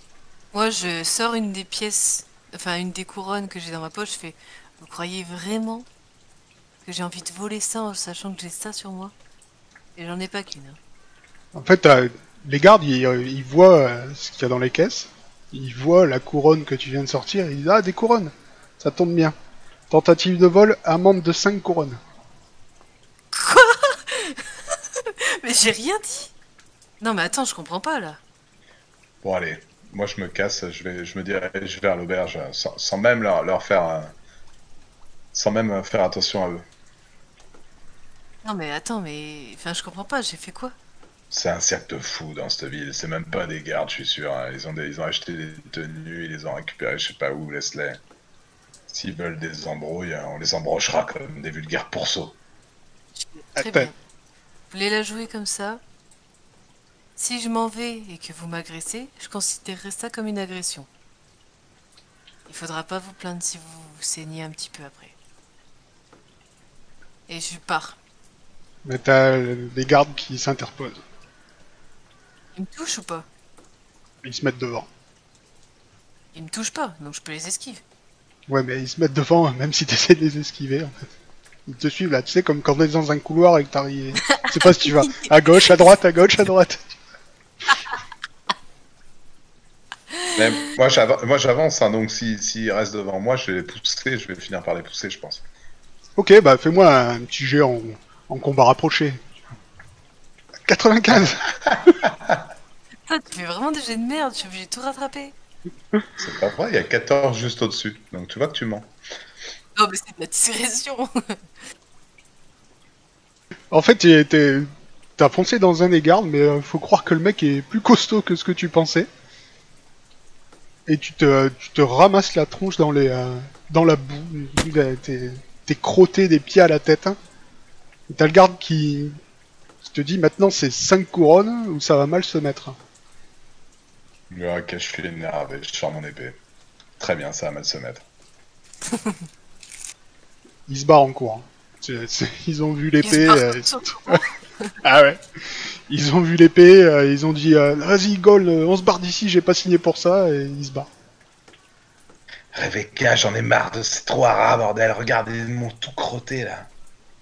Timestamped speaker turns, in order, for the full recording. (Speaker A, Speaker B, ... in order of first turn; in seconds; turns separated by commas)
Speaker A: 0.5-5.9, Speaker A: 6.8-9.1, Speaker A: 10.0-10.8, Speaker B: 11.5-19.4, Speaker B: 19.9-22.0, Speaker A: 23.3-26.3, Speaker A: 27.0-28.2, Speaker C: 29.2-34.1, Speaker C: 35.3-36.7, Speaker A: 38.4-40.8, Speaker C: 41.3-48.0, Speaker C: 48.9-52.4, Speaker A: 53.1-54.0, Speaker B: 53.6-53.9, Speaker A: 54.7-55.8, Speaker A: 57.2-60.9, Speaker A: 62.5-65.1, Speaker A: 67.3-68.0, Speaker B: 68.8-71.0, Speaker A: 72.5-73.3, Speaker B: 74.2-74.9, Speaker A: 76.3-77.8, Speaker B: 78.5-81.1, Speaker B: 81.7-87.0, Speaker A: 84.2-85.9, Speaker A: 90.1-90.4, Speaker C: 90.3-95.4, Speaker B: 96.2-99.3, Speaker B: 100.7-102.0, Speaker C: 101.1-102.4, Speaker A: 103.1-105.3, Speaker C: 106.2-109.0, Speaker A: 109.8-111.5, Speaker B: 113.7-119.1, Speaker B: 120.9-127.2, Speaker B: 128.1-129.2, Speaker B: 129.8-132.8, Speaker C: 134.3-136.4, Speaker C: 137.0-138.0, Speaker A: 138.9-139.2, Speaker B: 140.7-144.2, Speaker A: 143.0-144.8, Speaker B: 144.8-150.9, Speaker C: 152.5-156.7